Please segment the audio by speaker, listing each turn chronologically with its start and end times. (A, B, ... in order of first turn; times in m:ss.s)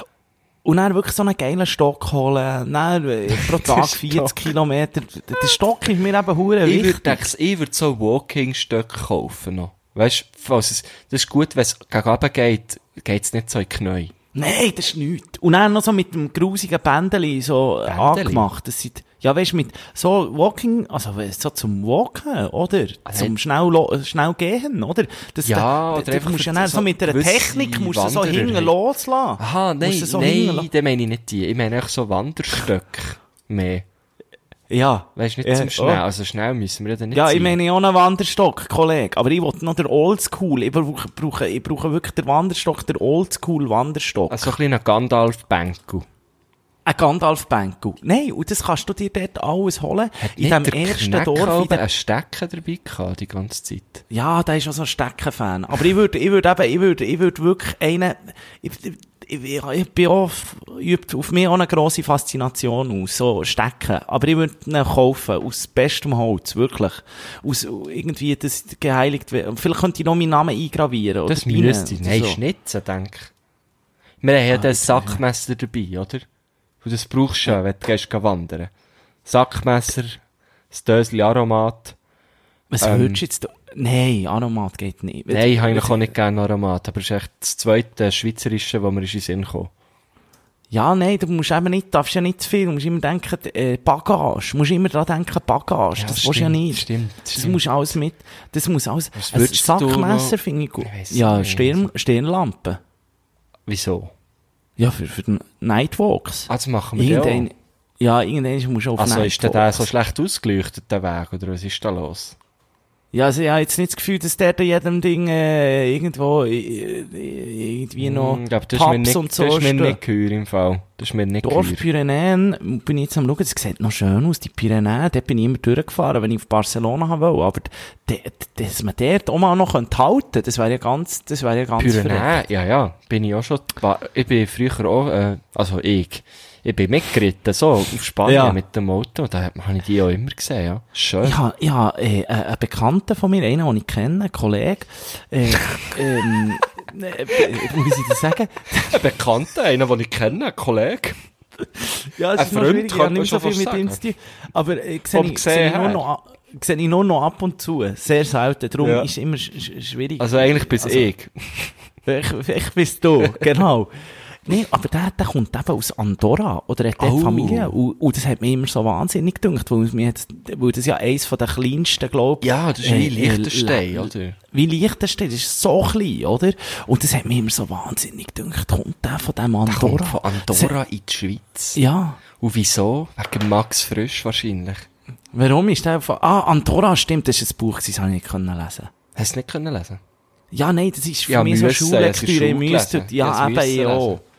0:00.6-0:07.3 A
0:03.3-0:04.4 B
0:06.6-0:14.1 B
0:14.4-0:30.7 A
0:17.9-0:18.5 B
0:23.1-0:23.4 B
0:25.4-0:28.7 B
0:29.4-0:33.8 B
0:34.7-0:36.0 A
0:35.2-0:37.6 B
0:37.1-0:44.5 A
0:44.3-0:46.1 B
0:46.9-0:51.8 A
0:50.2-0:54.0 B
0:54.1-1:12.4 A
1:11.3-1:13.3 B
1:14.2-1:16.3 B
1:14.5-1:15.2 A
1:16.8-1:18.7 B
1:19.2-1:22.0 B
1:22.7-1:26.1 A
1:22.8-1:23.2 B
1:25.3-1:29.7 B
1:30.7-1:42.8 A
1:36.0-1:37.6 B
1:39.2-1:41.9 B
1:43.7-1:44.1 B
1:44.8-1:49.9 A
1:46.5-1:47.5 B
1:49.0-1:52.4 B
1:53.1-2:00.0 A
1:58.0-2:01.8 B
2:01.4-2:12.3 A
2:11.8-2:21.4 B
2:18.2-2:18.6 A
2:21.2-2:29.0 A
2:28.9-2:31.2 B
2:32.0-2:41.1 A
2:32.4-2:34.0 B
2:35.1-2:36.0 B
2:38.8-2:39.1 B
2:40.2-2:41.8 B
2:42.1-3:00.8 A
2:47.0-2:47.7 B
2:52.4-2:54.4 B
2:59.7-3:01.8 B
3:01.8-3:02.2 A
3:02.4-3:04.9 B
3:05.3-3:08.9 A
3:09.2-3:10.0 B
3:10.5-3:14.2 A
3:11.3-3:14.2 B